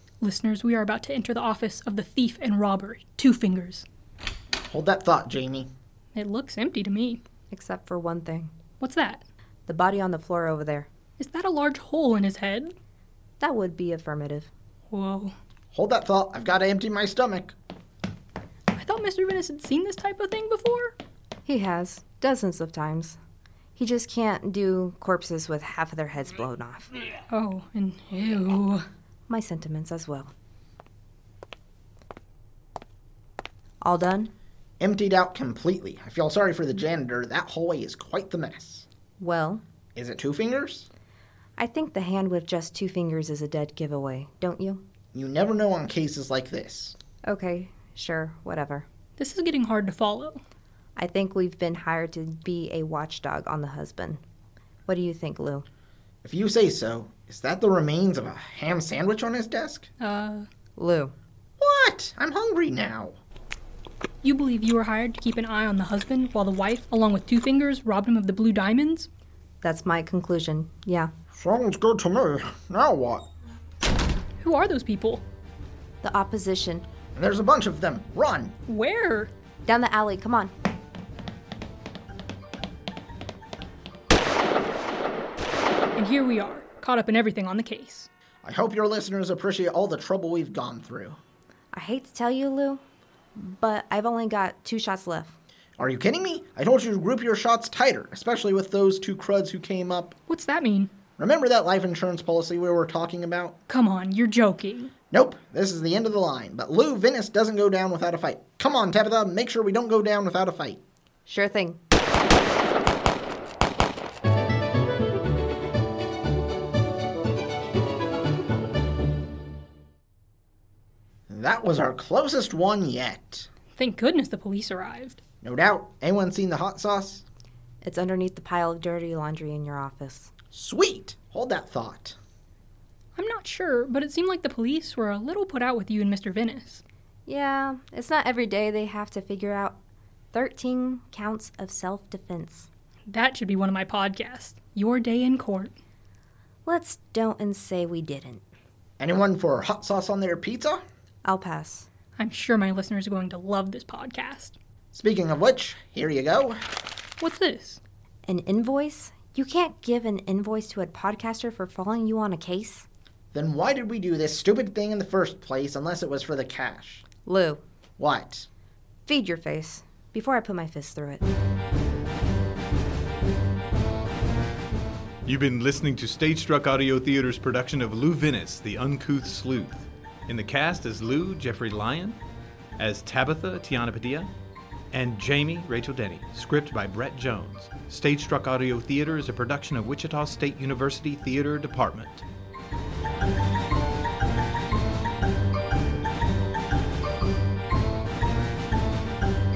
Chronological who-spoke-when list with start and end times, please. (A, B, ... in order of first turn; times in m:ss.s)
0:00.2-0:03.9 A
0:04.7-0:05.7 B
0:06.1-0:07.2 A
0:07.5-0:08.5 C
0:08.8-0:09.2 A
0:09.7-0:10.9 C
0:11.2-0:12.8 A
0:13.4-0:14.5 C
0:14.9-0:15.4 A
0:15.7-0:17.6 B
0:18.7-0:21.0 A
0:21.5-0:23.2 C
0:23.8-0:26.9 C
0:27.3-0:28.8 A
0:29.3-0:30.3 C
0:33.8-0:34.3 C
0:34.8-0:38.8 B
0:39.2-0:39.6 C
0:40.0-0:40.9 B
0:41.6-0:44.8 C
0:45.1-0:47.0 B
0:47.3-0:48.9 C
0:49.2-0:50.4 A
0:51.0-0:54.2 C
0:54.9-0:55.7 C
0:56.2-0:59.9 B
1:00.0-1:00.5 A
1:00.8-1:01.1 C
1:01.6-1:03.2 B
1:04.2-1:09.1 A
1:09.6-1:11.1 C
1:11.3-1:13.3 B
1:14.4-1:15.2 A
1:16.0-1:16.9 C
1:17.2-1:18.6 B
1:18.7-1:19.3 A
1:19.6-1:20.5 C
1:26.0-1:28.1 A
1:28.4-1:31.2 B
1:31.7-1:32.8 C
1:33.4-1:35.3 C
1:35.8-1:40.2 B
1:40.3-1:40.9 A
1:41.2-1:43.6 B
1:43.7-1:44.9 A
1:45.1-1:50.8 B
1:51.3-1:51.8 C
2:01.3-2:03.5 B
2:03.8-2:05.2 A
2:05.4-2:07.2 B
2:07.8-2:10.3 C
2:10.5-2:12.2 B
2:13.2-2:16.8 A
2:17.3-2:19.8 C
2:20.3-2:22.7 C
2:23.1-2:25.8 A
2:26.6-2:28.4 C
2:29.0-2:30.8 B
2:31.2-2:31.9 C
2:32.2-2:34.6 A
2:34.9-2:36.6 B
2:37.2-2:37.8 A
2:38.3-2:42.9 C
2:43.3-2:47.0 B
2:47.3-2:47.6 C
2:48.0-2:48.5 B
2:49.1-2:51.2 C
2:55.3-3:02.2 D
3:02.8-3:04.3 D
3:04.9-3:12.2 D